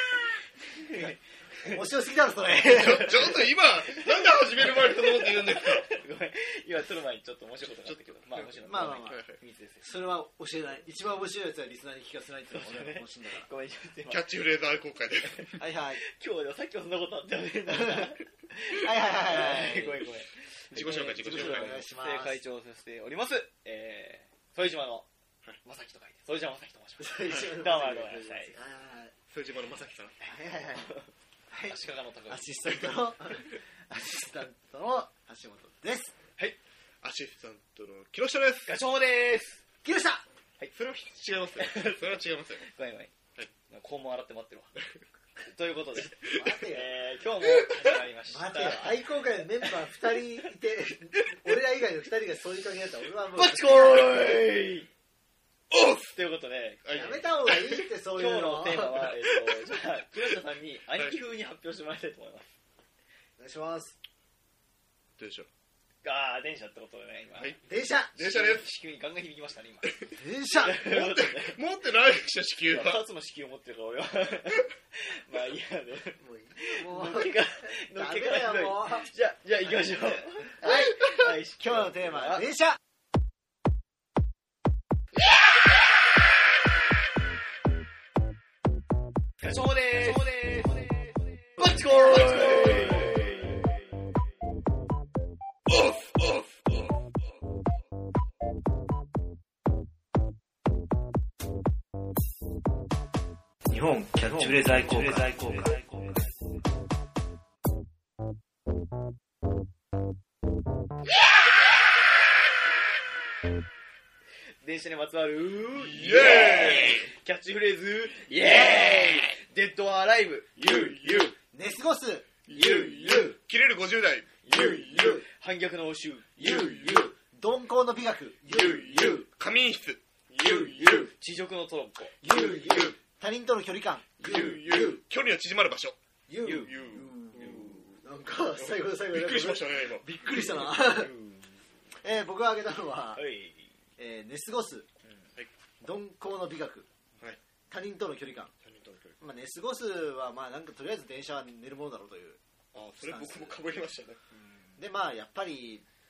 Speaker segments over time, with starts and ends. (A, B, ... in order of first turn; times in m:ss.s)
0:00.7-0:01.8 A
0:01.6-0:03.3 B
0:02.7-0:05.9 C
0:02.8-0:03.1 A
0:04.6-0:10.0 A
0:07.6-0:09.4 C
0:08.6-0:09.2 B
0:09.8-0:13.5 B
0:12.5-0:14.3 A
0:14.1-0:15.5 C
0:15.4-0:25.1 A
0:15.6-0:16.0 B
0:17.7-0:18.1 B
0:18.7-0:20.0 B
0:20.7-0:21.8 C
0:20.7-0:22.4 B
0:25.6-0:28.6 A
0:27.0-0:29.1 B
0:27.2-0:27.5 C
0:29.3-0:30.1 C
0:30.2-0:30.9 B
0:30.8-0:31.1 A
0:31.5-0:36.1 B
0:31.7-0:32.8 A
0:37.0-0:38.8 C
0:38.6-0:39.6 A
0:39.8-0:40.2 B
0:40.7-0:42.6 C
0:41.6-0:43.1 A
0:43.7-0:44.7 A
0:45.4-0:49.7 A
0:46.3-0:46.9 B
0:47.7-0:47.9 C
0:48.3-0:54.3 B
0:53.3-0:54.9 A
0:55.7-0:56.2 C
0:56.1-0:56.8 A
0:56.8-0:57.7 C
0:56.9-0:59.2 B
0:58.1-1:02.5 A
1:03.4-1:04.0 B
1:05.2-1:05.5 C
1:06.0-1:07.6 A
1:07.6-1:08.1 B
1:08.1-1:08.7 C
1:08.1-1:11.6 A
1:10.2-1:10.8 B
1:10.8-1:13.0 C
1:12.6-1:22.5 A
1:16.2-1:19.1 B
1:20.5-1:22.8 B
1:29.4-1:33.6 A
1:32.2-1:33.3 C
1:35.7-1:36.8 C
1:43.7-1:45.9 D
1:44.5-1:46.0 A
1:54.6-2:01.3 A
1:55.7-1:57.1 C
2:00.7-2:01.2 C
2:01.5-2:03.4 B
2:02.5-2:05.2 C
2:04.4-2:07.1 A
2:04.5-2:05.3 B
2:06.4-2:09.3 B
2:06.5-2:07.0 C
2:08.5-2:11.1 C
2:10.7-2:12.1 A
2:12.2-2:15.0 B
2:12.3-2:12.9 C
2:14.2-2:18.0 C
2:16.3-2:21.1 B
2:18.6-2:20.0 C
2:20.6-2:21.6 A
2:22.0-2:23.2 B
2:23.1-2:23.7 A
2:24.0-2:24.9 B
2:25.0-2:25.3 A
2:25.8-2:26.9 B
2:27.7-2:28.5 B
2:28.6-2:29.2 C
2:29.2-2:32.4 B
2:32.7-2:34.2 C
2:33.0-2:33.6 B
2:34.7-2:35.8 B